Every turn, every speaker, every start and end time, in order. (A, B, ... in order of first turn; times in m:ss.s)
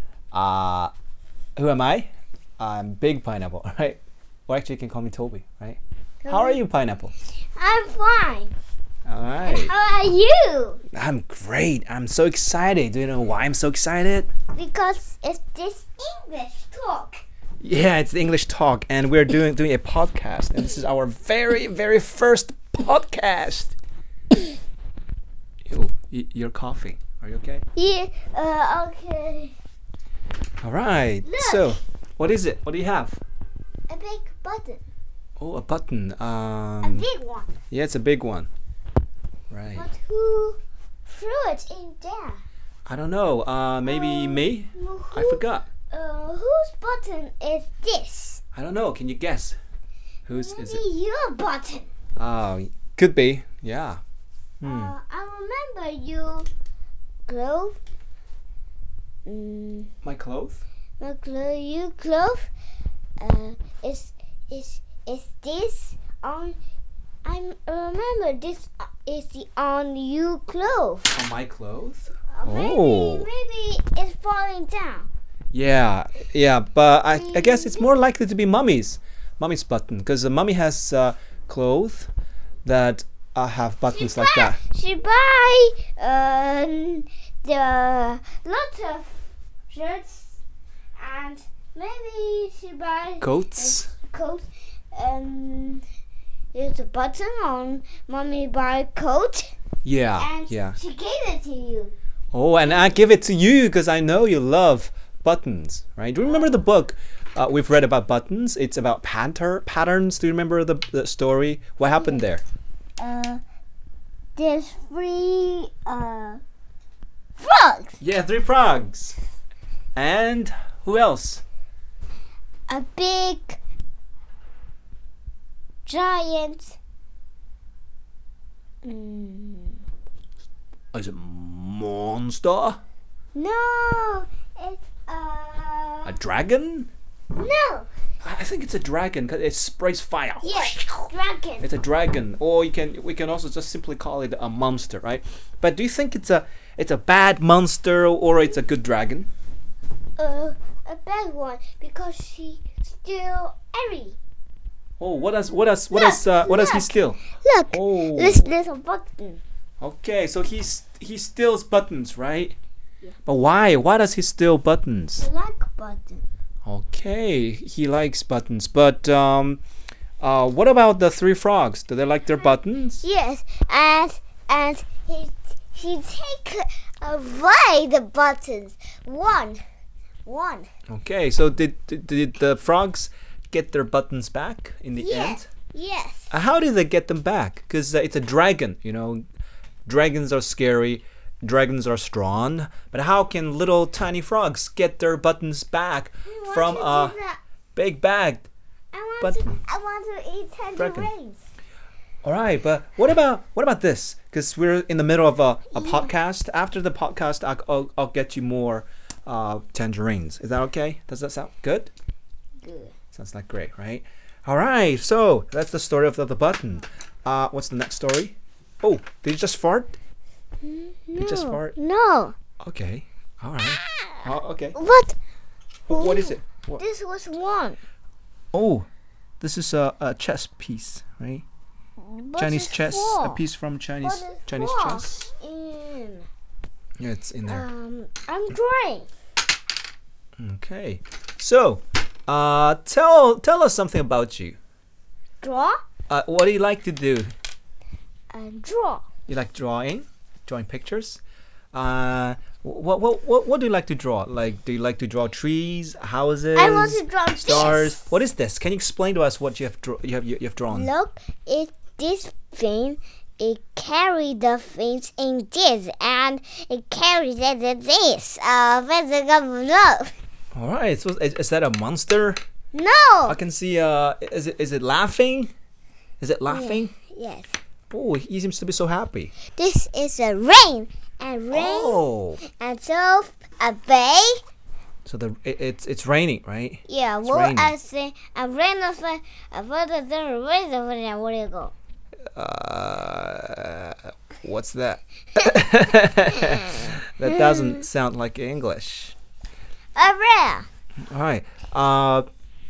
0:00.3-0:00.9 A
0:01.6-0:07.1 A
0:06.2-0:06.6 B
0:07.6-0:08.6 B
0:09.0-0:09.7 A
0:09.4-0:10.8 B
0:10.9-0:14.3 A
0:14.5-0:17.2 B
0:17.6-0:23.8 A
0:25.7-0:27.6 A
0:27.8-0:29.6 B
0:30.6-0:33.2 A
0:31.2-0:31.8 B
0:33.9-0:34.8 B
0:35.4-0:37.1 A
0:36.8-0:37.6 B
0:37.7-0:38.5 A
0:39.5-0:39.9 A
0:39.7-0:42.4 B
0:42.9-0:45.7 A
0:43.8-0:48.4 B
0:48.6-0:49.6 A
0:50.3-0:50.8 A
0:50.3-0:51.9 B
0:52.2-0:54.0 A
0:54.6-0:55.0 A
0:54.6-0:56.5 B
0:57.3-0:57.8 B
0:59.3-0:59.9 B
1:00.0-1:00.6 A
1:01.0-1:02.5 B
1:03.2-1:06.6 B
1:07.2-1:11.2 B
1:11.1-1:13.3 A
1:12.3-1:15.1 B
1:15.5-1:22.1 A
1:17.1-1:17.9 B
1:22.6-1:24.6 A
1:23.9-1:29.2 B
1:29.7-1:30.4 B
1:31.0-1:35.8 B
1:33.2-1:33.9 A
1:36.5-1:39.6 B
1:39.8-1:40.8 A
1:40.2-1:41.9 B
1:42.3-1:52.4 A
1:52.0-1:52.3 B
1:53.0-1:53.4 B
1:54.4-1:56.4 B
1:57.4-1:58.0 B
1:58.0-1:59.2 A
2:00.0-2:01.4 A
2:02.7-2:03.6 B
2:05.9-2:06.8 B
2:08.8-2:09.8 B
2:10.9-2:12.8 A
2:13.3-2:16.2 B
2:16.1-2:16.9 A
2:17.4-2:17.9 B
2:18.2-2:20.9 A
2:20.4-2:21.7 B
2:21.6-2:29.3 A
2:30.2-2:34.2 B
2:35.0-2:37.2 A
2:35.9-2:39.4 B
2:37.7-2:38.5 A
2:39.8-2:42.6 A
2:43.3-2:45.3 A
2:45.2-2:46.2 B
2:46.6-2:49.6 A
2:50.2-2:53.0 A
2:53.0-2:59.6 B
3:00.3-3:00.7 B
3:00.9-3:05.5 A
3:05.0-3:06.3 B
3:06.3-3:09.2 A
3:09.9-3:17.2 A
3:16.2-3:17.4 B
3:17.8-3:18.5 A
3:18.9-3:21.5 B
3:19.2-3:19.6 A
3:20.8-3:21.1 A
3:22.2-3:31.9 A
3:25.7-3:26.2 B
3:32.6-3:32.9 B
3:33.1-3:40.0 A
3:40.6-3:42.4 B
3:41.2-3:41.8 A
3:42.6-3:44.8 A
3:43.6-3:45.2 B
3:45.9-3:46.8 A
3:45.9-3:47.8 B
3:48.5-3:48.9 A
3:49.4-3:51.5 A
3:52.0-3:53.4 B
3:52.4-3:55.3 A
3:54.0-3:56.3 B
3:57.0-3:57.7 A
3:57.5-3:59.1 B
4:00.4-4:04.6 A
4:05.4-4:05.8 B
4:06.1-4:07.3 A
4:08.3-4:09.0 B
4:09.3-4:11.2 A
4:11.7-4:20.9 A
4:16.6-4:18.1 B
4:20.7-4:30.1 B
4:30.5-4:32.4 A
4:32.7-4:33.4 B
4:33.3-4:35.5 A
4:36.2-4:36.9 A
4:36.5-4:37.6 B
4:37.9-4:39.3 A
4:39.6-4:44.4 B
4:41.5-4:42.4 A
4:45.0-4:47.8 A
4:46.9-4:51.7 B
4:52.4-4:59.2 A
4:56.2-4:57.9 B
5:00.0-5:00.7 B
5:01.1-5:02.3 A